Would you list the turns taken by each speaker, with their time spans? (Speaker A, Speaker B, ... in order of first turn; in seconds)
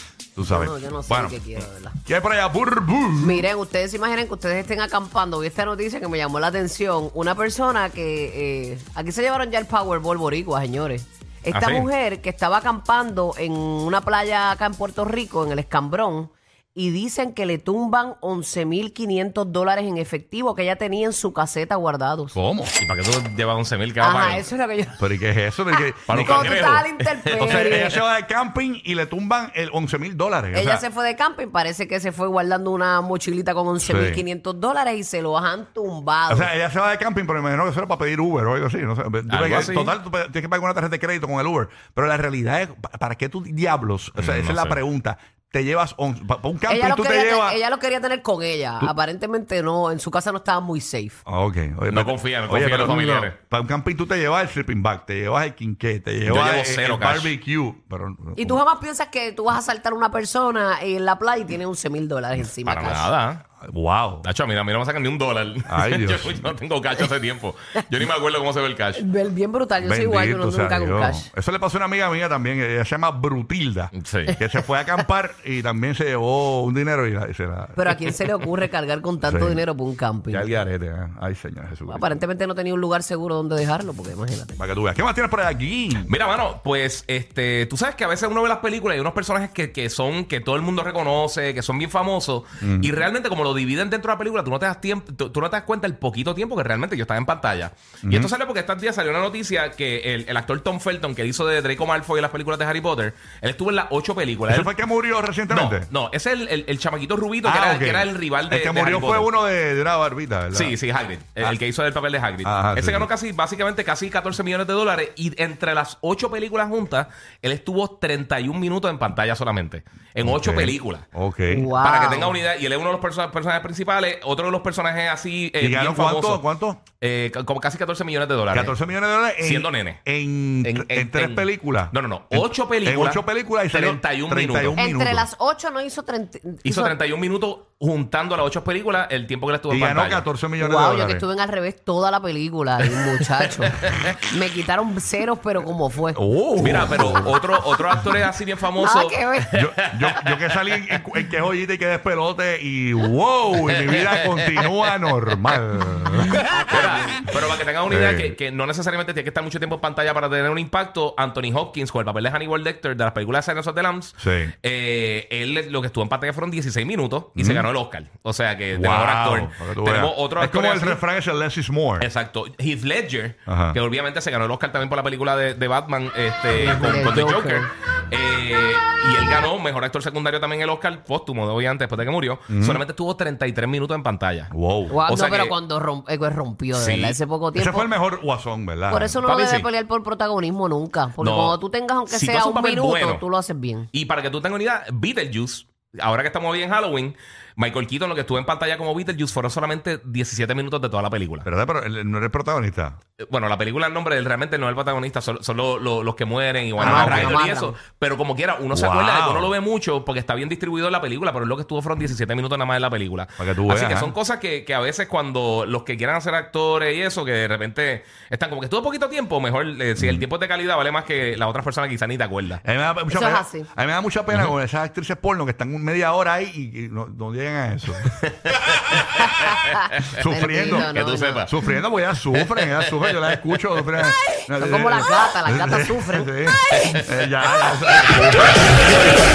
Speaker A: 0.3-1.4, 2.0-3.5, 22.3-22.7, 25.0-26.8, 27.4-30.8, 33.8-34.2, 36.3-47.6, 51.2-58.6, 63.6-64.2, 65.7-66.4, 69.8-78.1, 79.2-79.6, 80.3-82.2, 84.6-86.1, 92.6-92.9, 98.0-98.3, 104.5-105.9, 107.4-110.8, 112.4-113.1, 120.2-121.7, 125.6-126.8, 128.5-135.3, 139.7-141.2, 146.1-147.3, 149.5-156.4, 157.9-158.3, 164.2-164.5, 167.3-167.7, 168.7-172.1, 173.5-173.8, 182.5-182.8, 184.5-185.0, 187.6-189.2, 201.4-203.0, 206.8-207.4, 208.7-209.5, 213.4-214.1, 220.0-220.2, 222.6-228.1, 230.1-239.2
Speaker B: 0.5-2.0, 3.2-22.4, 24.0-25.2, 25.7-28.0, 30.5-36.5, 46.7-51.2, 58.4-63.1, 68.9-71.3, 77.8-80.5, 81.9-84.6, 121.5-122.4, 134.7-136.9, 140.6-147.3, 148.7-149.5, 156.3-157.4, 176.6-177.7, 184.9-187.9, 188.9-193.9, 206.8-207.8, 223.1-223.7, 229.4-231.5, 234.6-237.1
Speaker C: 11.5-11.9, 22.8-24.5, 26.1-28.0, 39.3-39.9, 44.2-44.8, 51.9-53.4, 56.2-57.3, 62.6-63.4, 64.2-69.0, 73.9-74.3, 86.0-104.7, 105.5-109.3, 110.5-121.1, 121.7-126.4, 127.0-128.8, 129.4-130.0, 130.6-134.8, 136.6-140.3, 146.6-151.0, 153.6-155.5, 156.2-171.0, 172.0-184.5, 185.1-185.6, 186.7-187.2, 189.2-189.7, 191.2-193.2, 193.9-201.5, 203.2-222.6, 228.2-230.0, 230.7-231.5, 232.3-234.0